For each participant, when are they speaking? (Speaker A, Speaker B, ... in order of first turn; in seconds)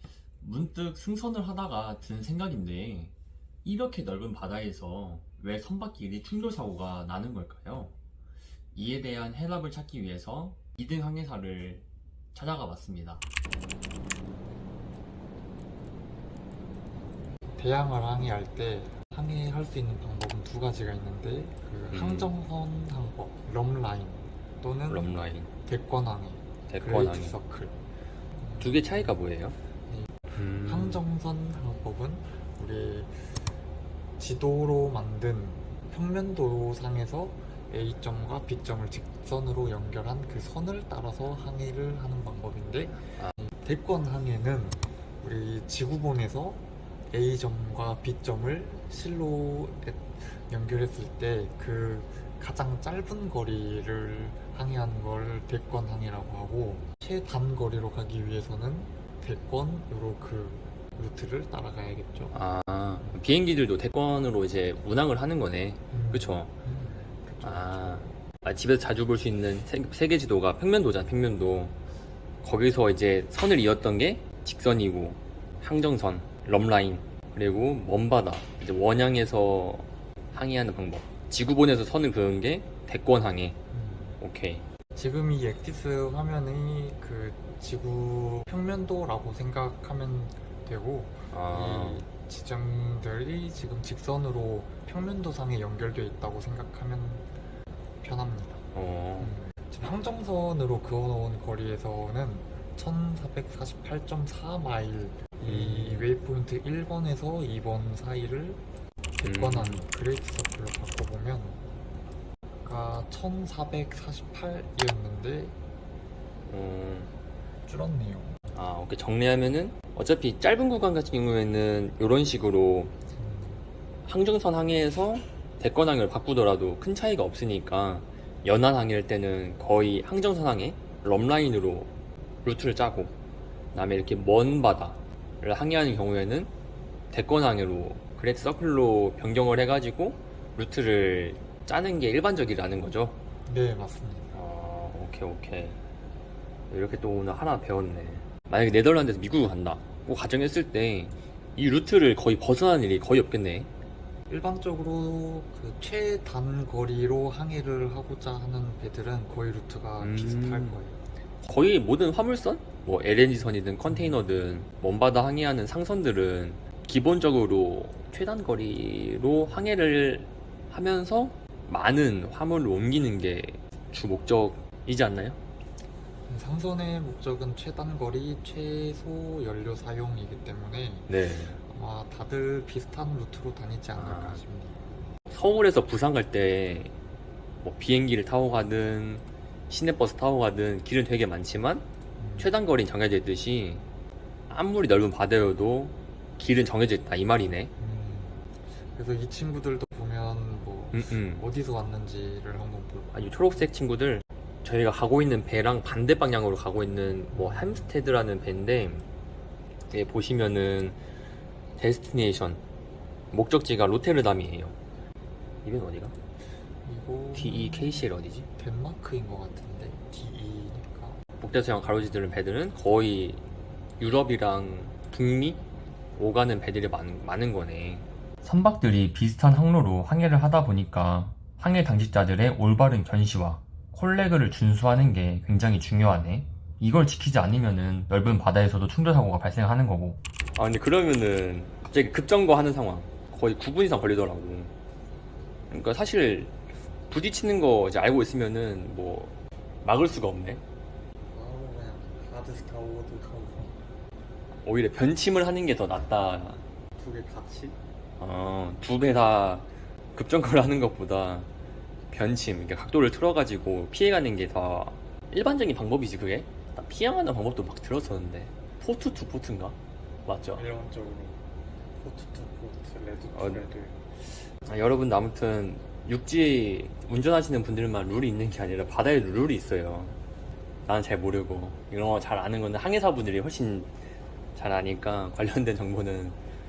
Speaker A: 0.4-8.0, 8.8-13.2, 21.9-22.4, 24.9-25.5, 26.7-27.4, 28.6-29.6, 30.3-31.0, 62.3-66.5, 67.4-71.8, 72.4-83.6, 84.2-84.6, 91.3-92.0, 98.7-99.3, 105.5-106.1, 109.2-109.8, 116.5-117.1, 118.5-123.0, 124.1-131.9, 132.4-133.2, 133.7-136.5, 137.1-143.2, 144.3-145.8, 146.7-153.7, 160.0-160.8, 161.4-175.4, 181.1-181.6, 183.9-184.4, 185.3-186.9, 187.6-191.8, 192.4-193.8, 194.5-197.7, 200.9-201.5, 203.1-209.1, 209.9-211.0, 211.8-212.6, 213.3-214.8, 215.6-216.2, 217.3-218.5, 221.4-223.4, 224.0-225.6, 226.2-244.7, 245.7-246.6, 247.1-250.6, 254.6-256.6, 258.2-261.5, 262.1-270.7, 273.3-273.6, 274.6-280.2, 280.9-283.9, 284.6-286.4
Speaker B: 17.5-27.8, 28.4-29.2, 29.9-33.3, 34.2-62.4, 65.9-68.2, 83.7-84.2, 85.0-97.3, 98.0-98.6, 99.2-108.6, 109.2-111.6, 112.6-115.6, 117.7-118.4, 123.1-123.6, 143.5-144.3, 154.3-161.0, 163.9-164.2, 176.3-185.0, 192.2-192.5, 197.8-203.7, 207.3-207.9, 216.8-221.2, 251.3-253.8, 257.0-257.8, 270.5-271.4, 271.9-274.0